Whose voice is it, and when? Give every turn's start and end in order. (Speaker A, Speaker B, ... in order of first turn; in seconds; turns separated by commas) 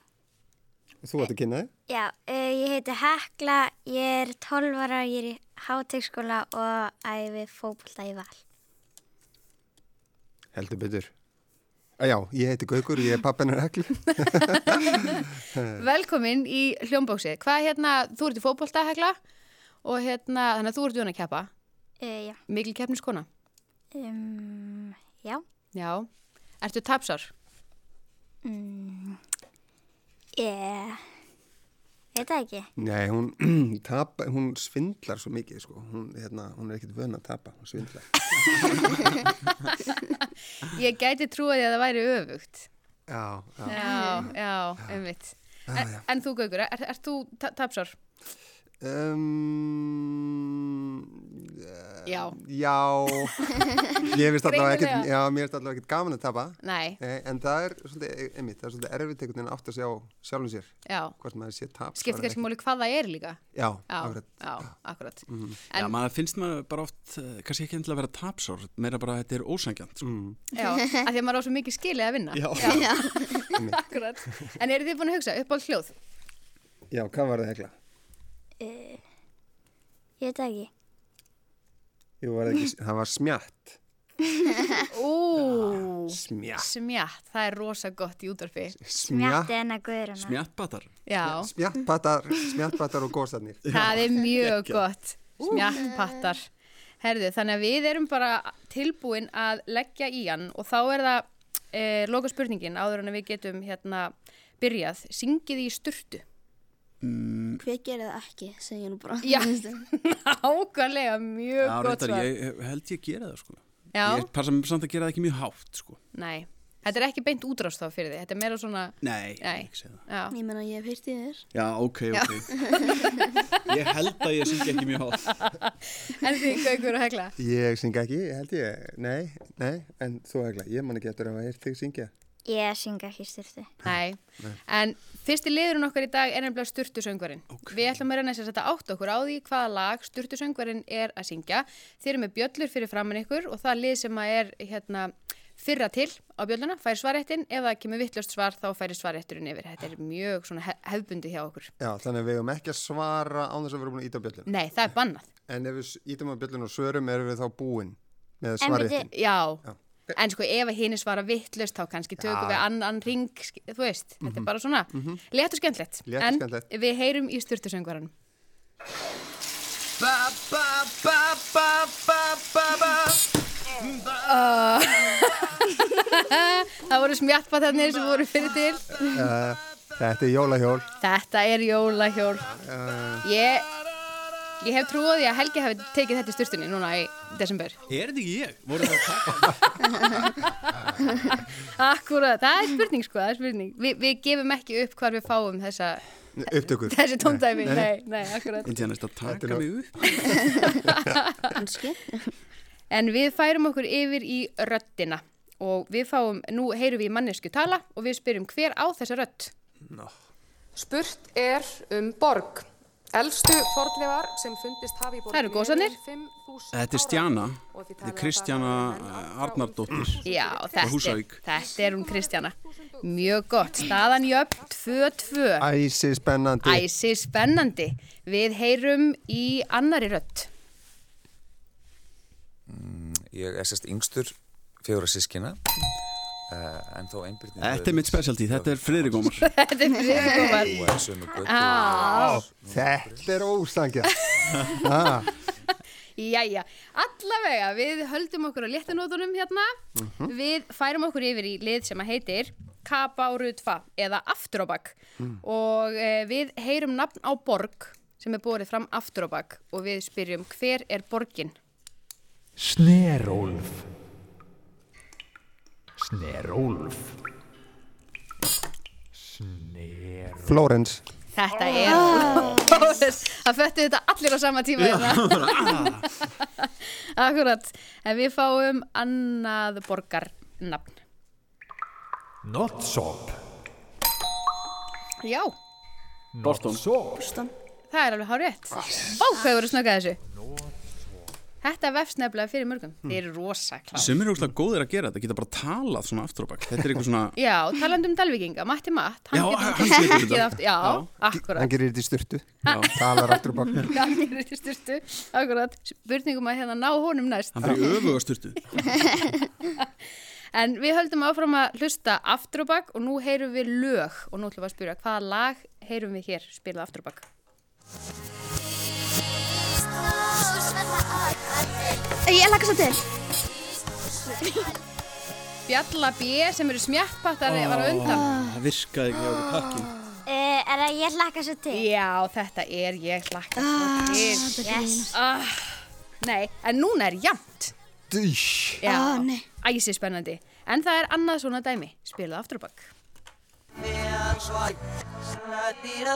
Speaker A: 1.0-1.7, Speaker B: 1.9-8.4, Speaker A: 10.5-11.1, Speaker A: 12.0-14.9, Speaker C: 14.2-19.1, Speaker A: 15.5-15.8, Speaker C: 19.8-21.5, Speaker B: 22.0-22.4, Speaker C: 22.5-23.2, Speaker B: 23.9-25.4, Speaker C: 25.7-26.1, Speaker C: 26.6-27.3, Speaker B: 28.4-29.2, Speaker B: 30.4-31.0, Speaker B: 32.1-32.7, Speaker A: 32.8-38.1, Speaker C: 38.4-38.8, Speaker C: 39.4-42.7, Speaker A: 43.1-44.3, Speaker C: 43.6-47.9, Speaker D: 43.8-44.2, Speaker A: 45.7-46.0, Speaker A: 48.8-62.4, Speaker C: 52.0-52.4, Speaker C: 54.4-55.1, Speaker C: 56.6-57.0, Speaker C: 60.9-61.1, Speaker C: 62.0-66.0, Speaker A: 63.5-64.7, Speaker A: 65.3-65.6, Speaker E: 65.8-70.0, Speaker A: 70.0-70.4, Speaker C: 70.5-72.9, Speaker E: 72.3-73.0, Speaker D: 72.6-73.6, Speaker A: 73.5-73.8, Speaker C: 73.5-75.9, Speaker A: 76.9-77.7, Speaker B: 78.6-79.0, Speaker B: 80.2-80.7, Speaker A: 82.2-83.8, Speaker C: 84.9-88.8, Speaker A: 86.1-86.7, Speaker A: 88.8-89.5, Speaker B: 89.0-90.4, Speaker E: 90.2-90.9, Speaker C: 91.0-91.5, Speaker A: 91.2-94.0, Speaker E: 93.6-94.8, Speaker C: 93.7-96.4, Speaker E: 95.4-95.7, Speaker C: 97.0-106.2, Speaker E: 107.0-107.6, Speaker D: 107.6-109.8, Speaker C: 109.2-112.3, Speaker E: 111.6-116.0, Speaker C: 113.9-114.3, Speaker C: 116.1-120.3, Speaker E: 119.0-120.0, Speaker D: 120.3-121.4, Speaker E: 121.5-125.5, Speaker D: 122.5-123.3, Speaker C: 125.4-127.3, Speaker A: 127.4-132.1, Speaker B: 132.4-133.7, Speaker C: 133.8-151.7, Speaker A: 151.8-154.5, Speaker C: 154.4-155.3, Speaker A: 155.5-159.1, Speaker B: 158.6-159.1, Speaker C: 159.1-159.6, Speaker A: 159.6-160.2, Speaker C: 160.1-168.1, Speaker A: 162.2-162.7, Speaker A: 164.2-165.2, Speaker A: 166.1-166.7, Speaker E: 170.0-172.6, Speaker C: 174.0-178.9, Speaker A: 179.0-180.9, Speaker C: 181.0-182.5, Speaker A: 182.5-183.2, Speaker C: 183.2-183.7, Speaker C: 184.6-187.8, Speaker E: 187.9-190.2, Speaker C: 191.1-196.0, Speaker A: 196.3-197.9, Speaker C: 196.8-198.7, Speaker E: 198.6-200.7, Speaker A: 199.2-200.3, Speaker C: 200.8-201.5, Speaker D: 201.5-202.3, Speaker C: 202.9-209.5, Speaker F: 210.7-221.0, Speaker C: 215.3-216.0, Speaker E: 216.7-220.2, Speaker C: 220.2-225.7, Speaker E: 220.8-221.4, Speaker F: 221.6-225.1, Speaker A: 225.6-226.9, Speaker C: 226.6-230.5, Speaker G: 232.7-235.6, Speaker G: 236.5-239.4, Speaker E: 237.6-239.5, Speaker C: 239.4-242.4, Speaker G: 240.1-243.1, Speaker A: 242.2-245.3, Speaker G: 244.3-244.6, Speaker C: 246.2-249.7, Speaker A: 249.9-250.3, Speaker C: 250.2-261.5, Speaker H: 262.6-263.8, Speaker H: 266.1-267.1, Speaker H: 269.6-270.3, Speaker A: 270.3-271.0, Speaker C: 271.3-281.0, Speaker D: 271.6-272.8, Speaker E: 274.8-276.0, Speaker H: 282.6-283.4, Speaker C: 285.2-285.5, Speaker E: 286.4-287.0, Speaker D: 287.1-287.5, Speaker C: 287.9-290.2, Speaker C: 291.6-294.1, Speaker E: 293.9-297.3, Speaker C: 297.4-301.7, Speaker E: 299.3-301.1, Speaker A: 301.4-303.9, Speaker C: 302.6-308.0, Speaker E: 302.7-302.9, Speaker E: 307.5-309.0, Speaker C: 308.8-309.9, Speaker C: 310.5-317.2, Speaker D: 322.2-323.1, Speaker D: 324.3-324.8, Speaker C: 325.7-328.2, Speaker E: 327.4-329.9, Speaker D: 328.1-328.5, Speaker B: 330.2-331.9, Speaker C: 331.7-334.5, Speaker D: 333.6-335.1, Speaker B: 334.6-335.0, Speaker C: 335.1-337.7, Speaker A: 338.1-338.8, Speaker C: 338.8-342.9, Speaker D: 338.8-339.4